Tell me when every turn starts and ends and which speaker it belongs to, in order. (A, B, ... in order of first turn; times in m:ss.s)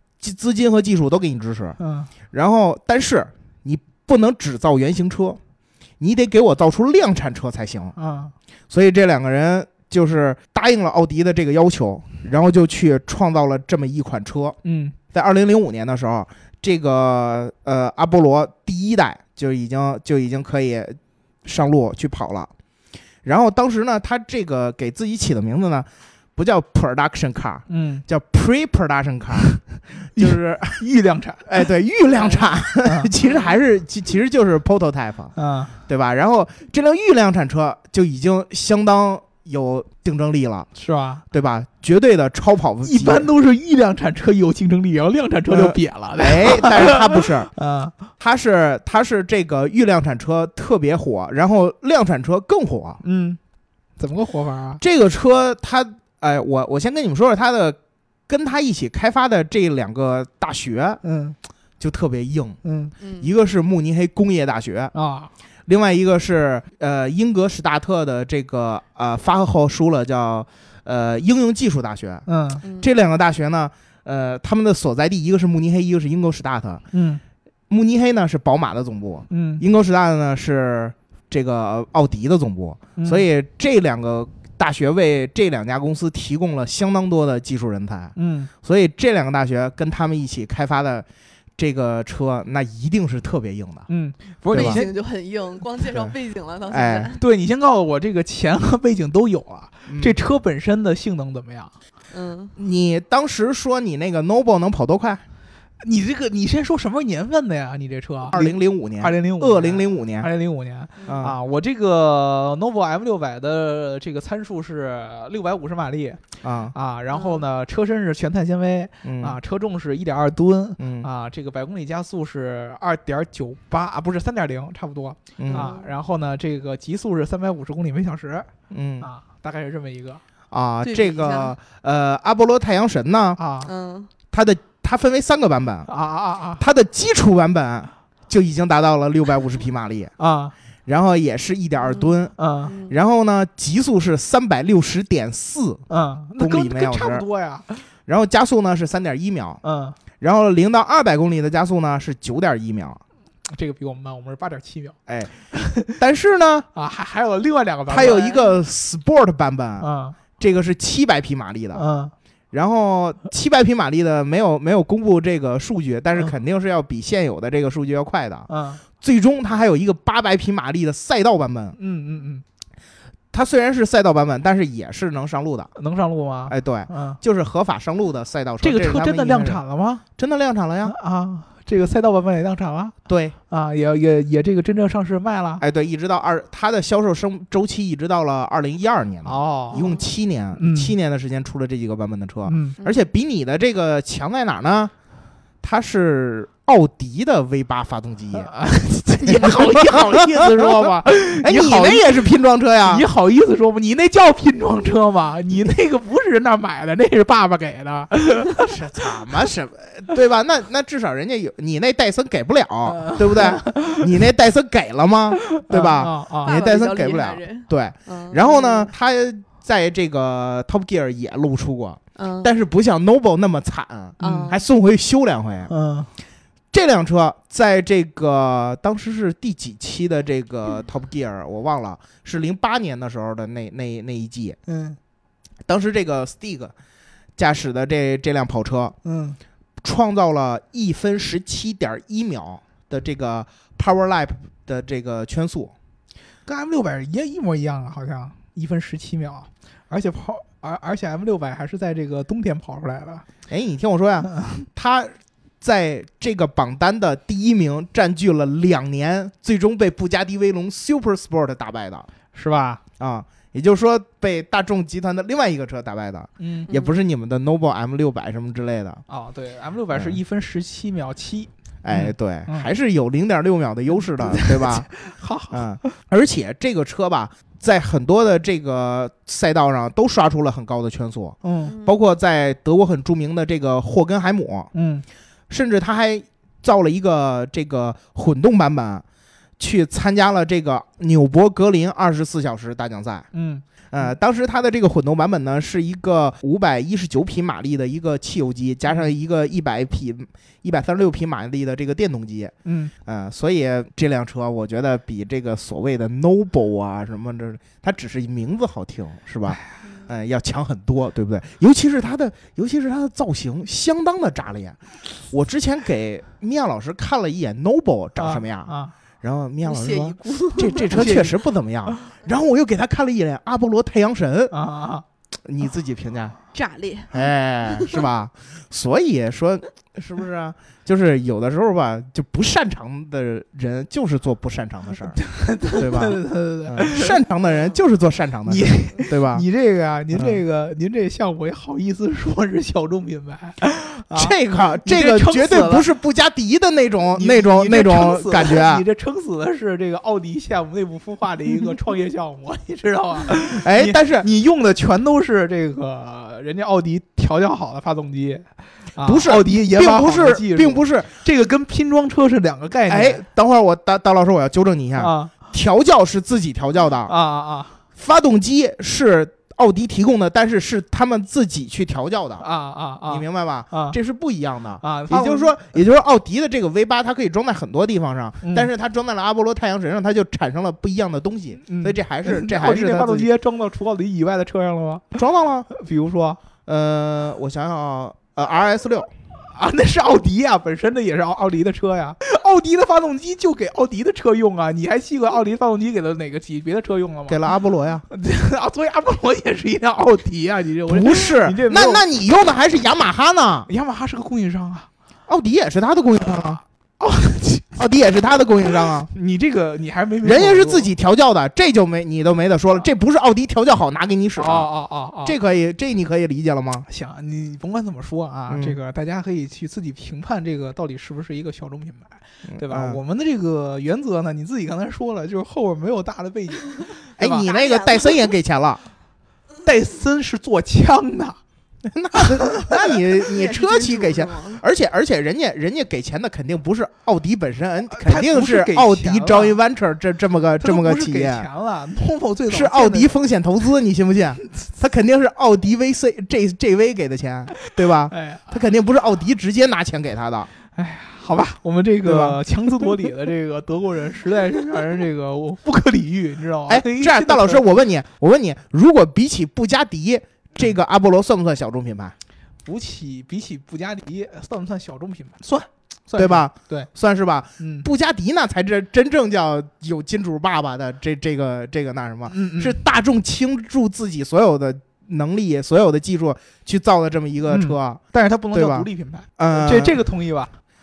0:00.2-0:01.8 A
0:01.8-0:02.1 B
0:02.3-0:05.4 A
0:06.0-0:07.9 A
0:08.0-0:08.3 B
0:08.7-0:14.6 A
0:14.6-0:15.0 B
0:15.1-0:22.5 A
0:23.2-0:29.5 A
0:27.7-0:28.0 B
0:30.1-0:30.8 A
0:30.1-0:31.5 B
0:31.4-0:35.3 A
0:32.2-0:32.5 C
0:32.8-0:33.1 B
0:33.2-0:33.5 C
0:35.4-0:35.7 B
0:35.9-0:40.7 A
0:40.7-0:41.2 B
0:41.3-0:43.3 A
0:42.8-0:47.9 B
0:45.5-0:47.5 A
0:48.2-0:53.0 A
0:53.0-0:53.4 B
0:54.0-0:54.8 B
0:54.8-1:01.0 A
1:01.0-1:01.4 B
1:01.8-1:02.6 A
1:02.6-1:02.9 B
1:03.0-1:03.3 C
1:03.2-1:04.9 A
1:04.9-1:05.3 B
1:05.6-1:12.3 A
1:12.2-1:12.6 B
1:12.6-1:12.9 C
1:12.8-1:16.8 A
1:16.9-1:17.2 B
1:17.7-1:31.0 A
1:19.3-1:19.6 B
1:23.0-1:23.2 B
1:28.2-1:28.5 B
1:31.6-1:33.9 A
1:33.9-1:34.9 B
1:34.5-1:34.8 A
1:34.5-1:37.2 C
1:36.7-1:37.1 A
1:37.1-1:41.7 B
1:39.8-1:40.2 A
1:42.1-1:42.5 C
1:42.6-1:45.2 A
1:45.8-1:56.2 B
1:48.3-1:50.3 A
1:51.0-1:51.4 A
1:56.4-1:56.7 A
1:56.7-2:08.5 B
1:57.1-1:57.4 C
1:59.0-1:59.4 A
2:00.8-2:01.1 A
2:05.4-2:05.7 A
2:05.5-2:05.9 C
2:08.7-2:09.1 A
2:09.0-2:10.2 B
2:10.5-2:13.4 A
2:10.8-2:11.5 C
2:13.4-2:13.7 B
2:13.6-2:14.1 C
2:14.3-2:15.9 A
2:15.8-2:16.6 B
2:16.6-2:20.1 A
2:20.2-2:20.5 B
2:20.9-2:25.8 A
2:21.8-2:22.1 C
2:22.4-2:22.7 B
2:22.6-2:23.0 C
2:25.9-2:27.8 B
2:26.4-2:27.2 A
2:28.1-2:29.6 A
2:29.6-2:30.0 B
2:30.2-2:33.0 A
2:33.5-2:35.0 B
2:35.1-2:35.3 A
2:35.5-2:36.0 B
2:36.0-2:36.7 A
2:36.7-2:38.4 B
2:37.9-2:41.8 A
2:38.0-2:38.5 C
2:39.8-2:40.2 B
2:41.7-2:42.1 B
2:42.5-2:48.5 A
2:48.5-2:48.8 B
2:49.0-2:51.8 A
2:51.8-2:52.4 B
2:53.3-2:55.7 A
2:55.8-2:57.2 B
2:56.5-2:59.6 A
2:58.6-3:00.0 B
3:00.2-3:01.0 A
3:00.8-3:02.9 B
3:03.1-3:03.4 A
3:03.5-3:05.6 B
3:05.6-3:14.9 A
3:09.2-3:09.8 B
3:09.7-3:10.0 C
3:10.6-3:10.9 B
3:12.4-3:12.8 B
3:12.8-3:13.1 C
3:15.6-3:18.5 A
3:18.4-3:22.2 B
3:19.2-3:23.0 A
3:22.8-3:28.7 B
3:28.6-3:45.7 A
3:32.8-3:34.1 B
3:35.5-3:36.6 B
3:36.4-3:38.9 C
3:42.2-3:42.5 C
3:44.2-3:44.5 B
3:44.2-3:44.6 C
3:45.7-3:46.1 B
3:46.7-3:54.6 A
3:54.7-3:55.0 B
3:55.7-3:56.7 A
3:57.4-3:59.0 A
3:59.0-3:59.4 B
3:59.8-4:05.7 A
4:06.4-4:13.2 B
4:13.5-4:22.1 A
4:14.4-4:14.6 B
4:22.3-4:22.8 B
4:23.0-4:29.0 A
4:26.4-4:26.7 B
4:26.7-4:27.0 C
4:29.1-4:32.7 B
4:31.8-4:34.9 A
4:34.2-4:35.9 B
4:35.5-4:44.7 A
4:41.4-4:41.7 B
4:41.6-4:42.0 C
4:44.7-4:45.0 B
4:45.5-4:49.0 A
4:49.6-4:53.3 A
4:53.3-4:54.1 B
4:53.9-5:02.5 A
5:02.6-5:02.9 B
5:03.0-5:24.5 A
5:18.2-5:18.9 B
5:19.6-5:21.2 C
5:20.9-5:21.3 B
5:24.5-5:25.0 B
5:25.4-5:26.4 A
5:26.5-5:28.0 C
5:27.1-5:39.4 A
5:35.2-5:37.2 B
5:38.5-5:45.9 B
5:40.1-5:40.4 A
5:44.1-5:48.8 A
5:47.1-6:03.2 B
5:53.4-5:54.3 A
5:59.0-6:01.1 A
6:02.9-6:07.1 A
6:05.0-6:05.3 B
6:07.0-6:07.8 B
6:08.0-6:12.4 A
6:12.4-6:14.0 B
6:13.1-6:23.3 A
6:14.8-6:15.6 B
6:18.4-6:18.7 B
6:21.6-6:25.2 B
6:25.2-6:25.7 A
6:25.7-6:26.4 B
6:26.6-6:29.1 A
6:29.5-6:37.4 B
6:37.3-6:38.0 A
6:38.1-6:42.0 B
6:40.9-6:43.7 A
6:43.7-6:44.9 B
6:45.3-6:46.6 A
6:46.2-6:47.8 B
6:47.8-6:49.1 A
6:48.7-6:50.9 B
6:50.2-6:54.7 A
6:54.4-6:55.4 B
6:55.2-6:56.9 A
6:56.9-7:07.5 B
6:58.5-6:58.8 A
7:02.5-7:03.0 A
7:07.2-7:08.8 A
7:07.4-7:08.3 C
7:09.6-7:11.4 B
7:11.9-7:21.5 A
7:12.2-7:12.7 B
7:12.9-7:14.6 C
7:17.9-7:19.6 B
7:20.6-7:23.1 B
7:22.5-7:30.5 A
7:27.6-7:28.5 B
7:30.7-7:37.6 B
7:32.0-7:32.4 A
7:36.7-7:42.1 A
7:42.6-7:46.9 B
7:46.2-7:58.0 A
7:47.6-7:47.9 B
7:52.3-7:52.8 B
7:57.5-8:00.5 B
7:58.5-8:00.0 A